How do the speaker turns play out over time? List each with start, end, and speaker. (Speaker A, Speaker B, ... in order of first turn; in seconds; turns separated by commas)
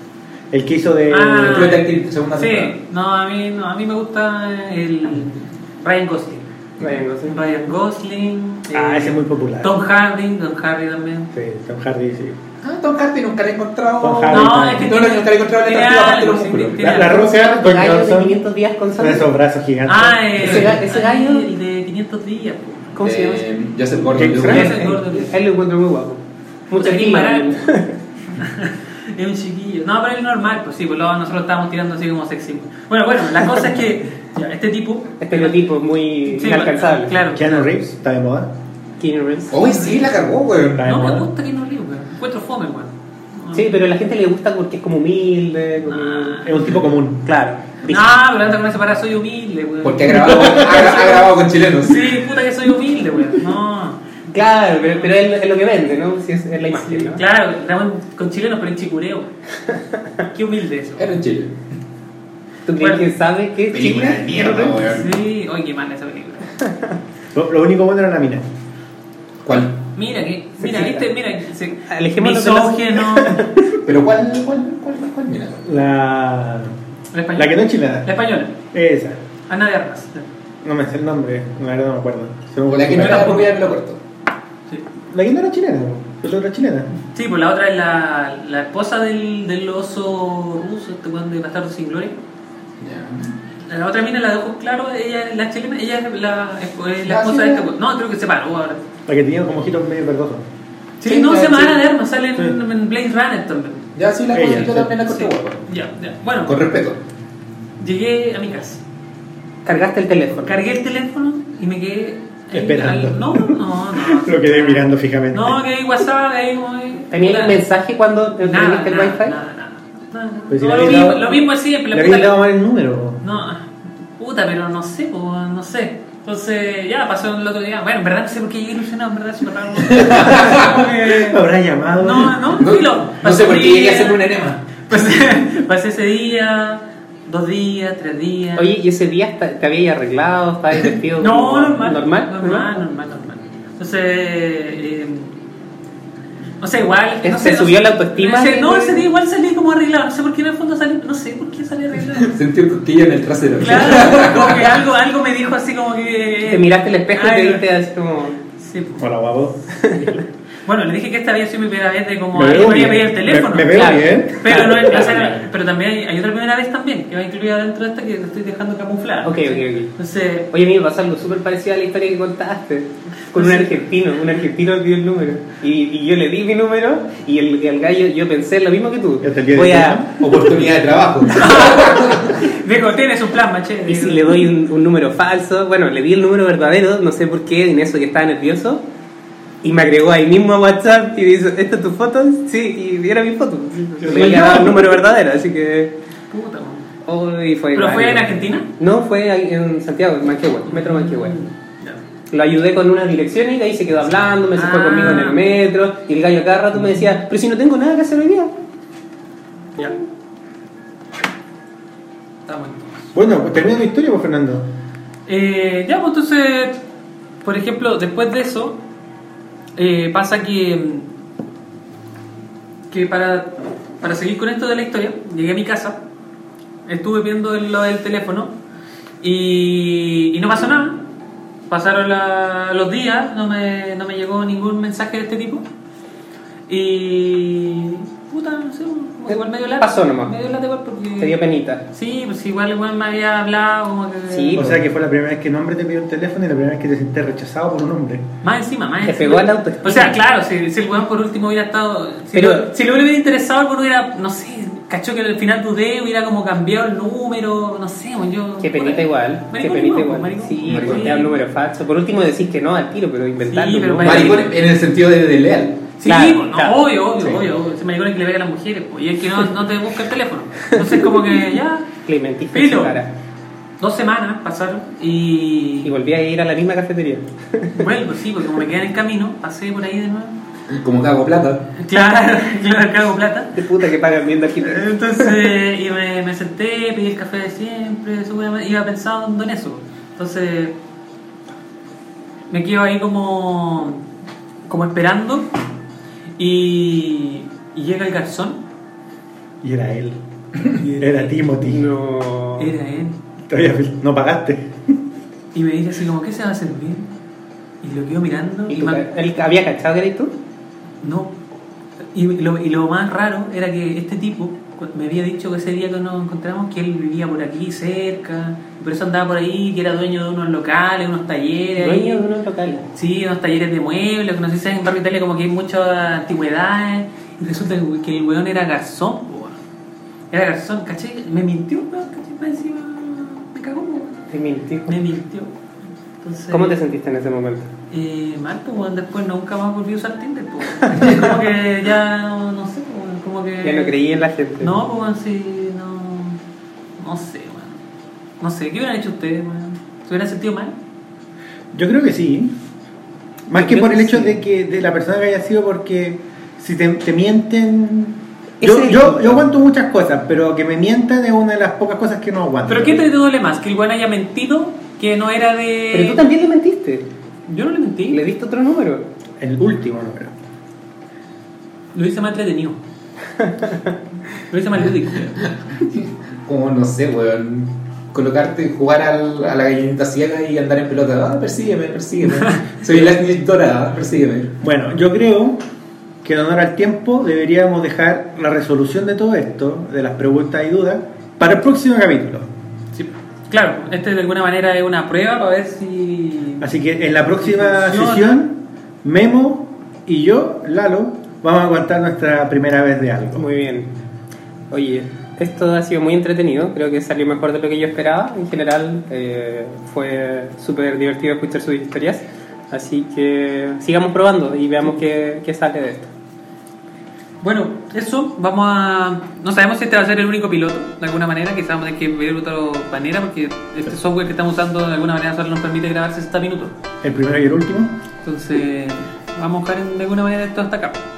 Speaker A: 0.5-1.8, Speaker B: 1.1-6.5, Speaker C: 1.4-2.8, Speaker D: 6.8-7.4, Speaker B: 7.3-11.3, Speaker A: 8.7-9.7, Speaker A: 11.3-12.4, Speaker C: 12.6-17.1, Speaker A: 14.0-14.9, Speaker B: 14.3-17.3, Speaker A: 16.8-18.4, Speaker D: 17.0-19.3, Speaker A: 18.9-20.5, Speaker B: 19.9-23.0, Speaker D: 20.4-21.5, Speaker D: 22.9-23.4, Speaker C: 23.0-24.8, Speaker A: 24.2-24.9, Speaker D: 24.4-28.0, Speaker B: 24.5-25.3, Speaker B: 26.7-27.6, Speaker B: 28.4-35.6, Speaker D: 35.2-37.2, Speaker B: 36.3-37.7, Speaker A: 37.3-38.5, Speaker D: 39.0-39.5, Speaker C: 39.5-40.9, Speaker B: 39.7-40.1, Speaker A: 40.8-41.3, Speaker B: 40.8-43.7, Speaker D: 43.5-46.7, Speaker B: 45.9-46.6, Speaker A: 46.4-47.2, Speaker D: 47.2-48.1, Speaker B: 47.9-54.0, Speaker C: 49.8-52.2, Speaker D: 54.3-57.2, Speaker B: 56.8-59.3, Speaker B: 60.3-61.1, Speaker C: 61.0-61.5, Speaker D: 62.7-64.8, Speaker B: 62.8-63.1, Speaker C: 63.7-65.2, Speaker B: 64.9-66.5, Speaker A: 67.3-68.4, Speaker C: 69.4-69.8, Speaker B: 70.0-73.5, Speaker D: 70.6-71.0, Speaker D: 71.9-73.8, Speaker C: 73.8-75.6, Speaker A: 75.7-76.8, Speaker B: 77.1-78.5, Speaker A: 77.4-78.1, Speaker A: 78.7-79.2, Speaker B: 79.5-80.3, Speaker A: 80.6-83.5, Speaker C: 82.7-84.0, Speaker B: 83.1-83.4, Speaker A: 85.1-86.9, Speaker B: 87.2-92.2, Speaker C: 92.8-93.3, Speaker B: 93.7-98.8, Speaker C: 97.0-97.7, Speaker A: 99.1-100.4, Speaker B: 101.0-106.6, Speaker C: 101.1-101.8, Speaker D: 101.1-101.4, Speaker C: 104.0-105.6, Speaker A: 104.3-104.9, Speaker C: 106.5-107.0, Speaker B: 107.8-108.8, Speaker D: 109.6-110.6, Speaker B: 110.5-117.6, Speaker A: 112.5-115.6, Speaker D: 117.1-119.3, Speaker B: 118.4-122.4, Speaker A: 120.5-123.2, Speaker B: 123.2-131.4, Speaker C: 129.8-130.8, Speaker A: 130.3-132.6, Speaker B: 132.0-134.2, Speaker C: 132.6-134.8, Speaker B: 134.9-138.7, Speaker D: 138.6-142.7, Speaker B: 141.2-145.4, Speaker B: 146.6-152.4, Speaker D: 147.2-149.1, Speaker C: 152.2-154.8, Speaker B: 153.6-157.7, Speaker D: 156.5-158.4, Speaker B: 158.6-159.1, Speaker A: 159.0-160.2, Speaker D: 159.8-160.1, Speaker B: 160.7-170.5, Speaker A: 162.3-165.3, Speaker D: 163.7-165.4, Speaker D: 169.2-169.9, Speaker D: 170.5-180.1, Speaker B: 173.3-173.8, Speaker A: 179.2-180.2, Speaker C: 180.2-182.5, Speaker B: 181.3-184.5, Speaker D: 183.9-188.8, Speaker D: 189.6-195.9, Speaker A: 194.0-194.9, Speaker B: 194.1-194.4, Speaker B: 196.3-196.9, Speaker D: 197.1-201.4, Speaker B: 197.7-198.7, Speaker B: 200.7-202.0, Speaker D: 202.3-208.5, Speaker B: 204.6-205.4, Speaker B: 212.5-213.1, Speaker A: 213.2-214.7, Speaker B: 215.3-216.8, Speaker B: 217.4-218.8, Speaker B: 219.8-221.1, Speaker B: 222.9-226.0, Speaker B: 226.9-228.6, Speaker B: 229.2-231.0, Speaker B: 231.7-235.7, Speaker B: 236.7-241.4, Speaker D: 239.3-240.3, Speaker D: 241.2-241.8, Speaker B: 241.9-244.7, Speaker D: 244.3-244.8, Speaker A: 244.6-248.2, Speaker B: 248.4-261.4, Speaker D: 249.0-250.2, Speaker D: 252.3-252.7, Speaker D: 258.6-264.4, Speaker C: 260.7-261.2, Speaker B: 263.5-264.5, Speaker C: 264.0-265.9, Speaker B: 266.0-271.9, Speaker D: 266.1-266.8, Speaker D: 272.1-273.1, Speaker B: 272.5-273.0, Speaker B: 273.8-275.9, Speaker D: 275.8-277.9, Speaker B: 277.7-280.4, Speaker C: 280.7-281.7, Speaker B: 281.8-283.6, Speaker D: 283.6-285.3, Speaker B: 284.6-290.8, Speaker B: 292.5-294.1, Speaker B: 294.7-295.5, Speaker B: 296.4-298.6, Speaker A: 299.6-300.2, Speaker A: 300.7-301.9, Speaker D: 300.8-302.7, Speaker B: 302.6-303.2, Speaker A: 303.5-304.7, Speaker B: 305.5-307.1, Speaker B: 307.8-309.1, Speaker D: 308.7-310.3, Speaker B: 311.0-311.4, Speaker B: 312.1-322.2, Speaker D: 321.8-322.9, Speaker B: 322.9-329.6, Speaker B: 330.3-334.3, Speaker D: 334.3-335.0, Speaker B: 334.9-335.5, Speaker B: 336.2-336.8, Speaker D: 336.5-337.7, Speaker B: 337.9-344.0, Speaker D: 343.6-344.7, Speaker B: 344.6-346.4, Speaker B: 347.0-347.8, Speaker B: 348.4-350.8, Speaker A: 351.7-352.5, Speaker A: 353.5-363.0, Speaker D: 353.6-354.4, Speaker D: 358.6-359.4, Speaker B: 362.7-366.2, Speaker D: 365.9-367.1, Speaker B: 367.5-368.2, Speaker D: 368.1-369.1, Speaker A: 369.4-370.3, Speaker B: 371.9-372.8, Speaker B: 374.5-375.5, Speaker C: 375.4-384.6, Speaker B: 382.4-382.6, Speaker A: 384.6-385.6, Speaker A: 386.2-392.5, Speaker B: 392.9-396.7, Speaker A: 396.6-403.5, Speaker B: 397.4-398.3, Speaker D: 403.4-403.9, Speaker D: 404.7-416.1, Speaker B: 417.4-426.8, Speaker A: 427.0-427.9, Speaker B: 428.2-431.0